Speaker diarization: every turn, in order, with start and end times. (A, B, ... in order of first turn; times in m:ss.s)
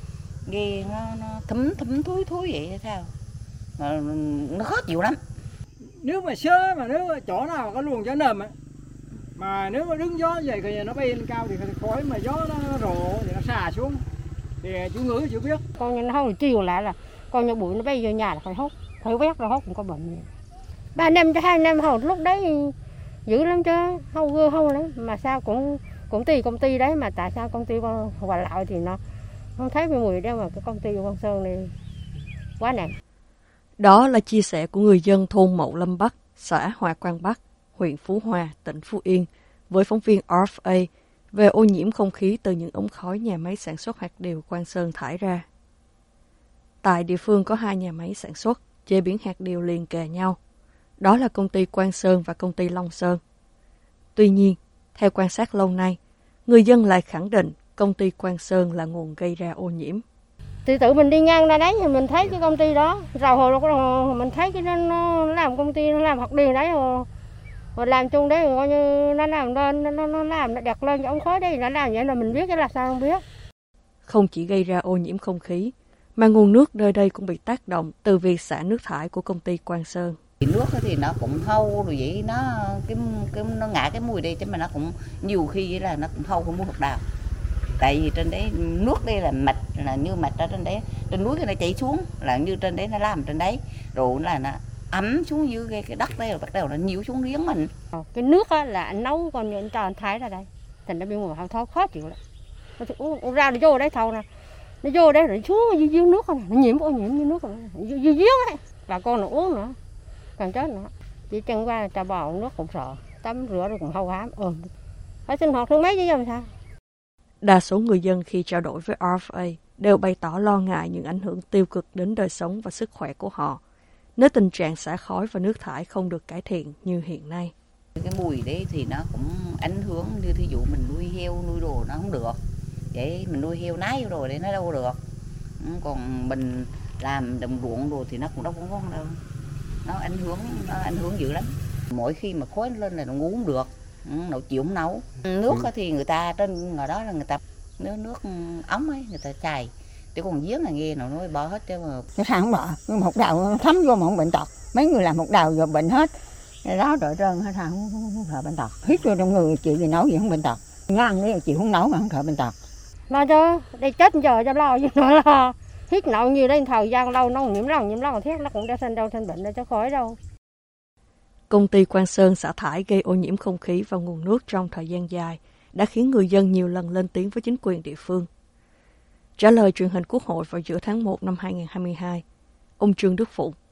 0:00.4-0:03.1 A
0:03.8-0:05.2 A
0:05.8-0:08.5 B
0:09.4-0:14.0 B
0:14.6-0:15.6 B
0:15.8-0:20.3 C
0:20.9-0:22.7 C
0:23.2-0:29.0 C
0:29.6-0:31.7 C
0:32.6-0:32.9 C
0:33.8-0:45.4 D
0:46.8-0:50.4 D
0:51.0-0:53.2 D
0:54.2-1:00.0 D
1:00.6-1:07.1 C
1:07.8-1:13.2 C
1:14.1-1:20.2 D
1:20.4-1:27.0 A
1:27.8-1:37.7 A
1:37.9-1:42.2 C
1:42.8-1:44.2 C
1:44.8-1:49.8 C
1:50.4-1:54.7 C
1:55.3-1:56.5 C
1:57.4-2:03.6 D
2:04.2-2:07.5 D
2:08.0-2:12.4 A
2:12.9-2:15.0 A
2:15.6-2:19.2 A
2:19.8-2:32.1 A
2:32.2-2:36.1 E
2:36.6-2:42.5 E
2:43.1-2:50.2 C
2:51.5-2:58.3 D
2:59.4-3:02.2 D
3:02.8-3:03.5 D